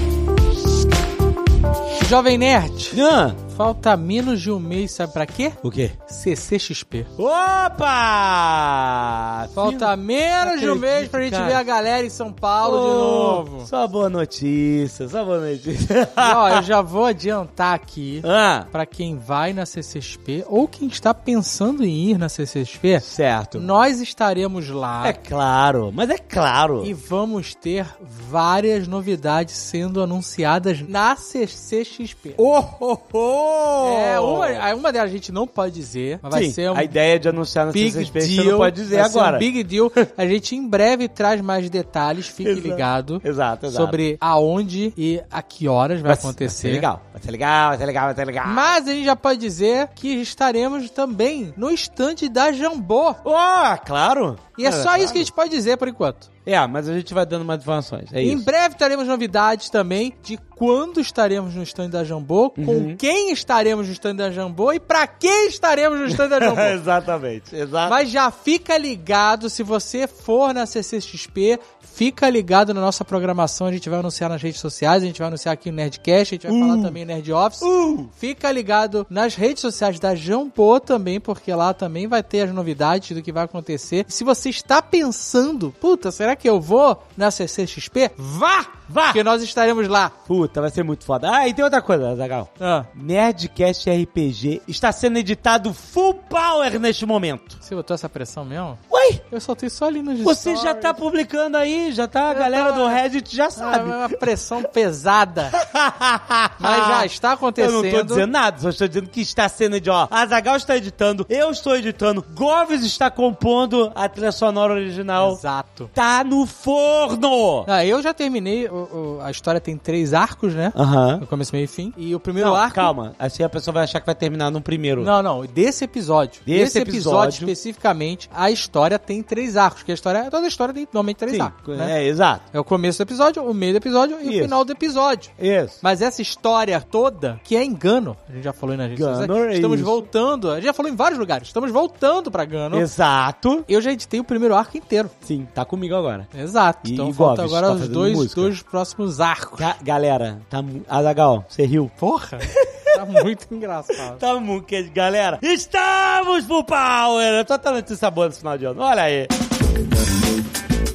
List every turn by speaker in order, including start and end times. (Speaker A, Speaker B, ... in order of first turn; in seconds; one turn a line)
Speaker A: 2.0-3.0
Speaker B: 2.9-3.4
Speaker A: 3.5-7.1
Speaker B: 5.6-6.0
Speaker B: 7.2-11.6
Speaker A: 9.5-13.7
Speaker B: 12.6-16.6
Speaker A: 16.2-25.2
Speaker B: 18.2-18.7
Speaker B: 23.0-23.7
Speaker B: 25.0-26.9
Speaker A: 26.8-32.4
Speaker B: 32.4-34.6
Speaker A: 33.8-36.9
Speaker B: 36.2-39.5
Speaker A: 37.7-46.9
Speaker B: 42.4-44.0
Speaker B: 46.0-48.8
Speaker A: 48.5-53.2
Speaker B: 53.2-55.3
Speaker A: 54.6-56.3
Speaker B: 56.4-58.5
Speaker A: 58.2-66.8
Speaker B: 62.6-63.0
Speaker B: 66.1-68.0
Speaker A: 67.9-90.1
Speaker B: 76.5-77.0
Speaker B: 77.6-78.1
Speaker B: 88.9-89.2
Speaker B: 90.2-97.6
Speaker A: 92.6-92.9
Speaker A: 97.6-98.8
Speaker B: 98.9-99.2
Speaker A: 99.3-101.0
Speaker B: 100.2-104.2
Speaker A: 102.3-103.0
Speaker A: 103.6-105.5
Speaker B: 105.5-115.4
Speaker A: 106.6-108.2
Speaker A: 115.2-115.9
Speaker B: 115.9-117.7
Speaker A: 117.7-122.9
Speaker B: 120.7-121.2
Speaker B: 122.4-125.1
Speaker A: 125.0-131.9
Speaker B: 126.5-127.5
Speaker B: 131.3-132.4
Speaker A: 132.5-135.3
Speaker B: 134.2-134.6
Speaker B: 135.4-135.8
Speaker A: 135.8-142.9
Speaker B: 138.9-140.0
Speaker B: 142.7-143.7
Speaker A: 143.7-145.1
Speaker B: 145.2-146.3
Speaker A: 146.3-149.7
Speaker B: 146.8-148.5
Speaker B: 149.6-151.9
Speaker A: 152.0-154.2
Speaker B: 152.7-153.0
Speaker B: 153.9-159.3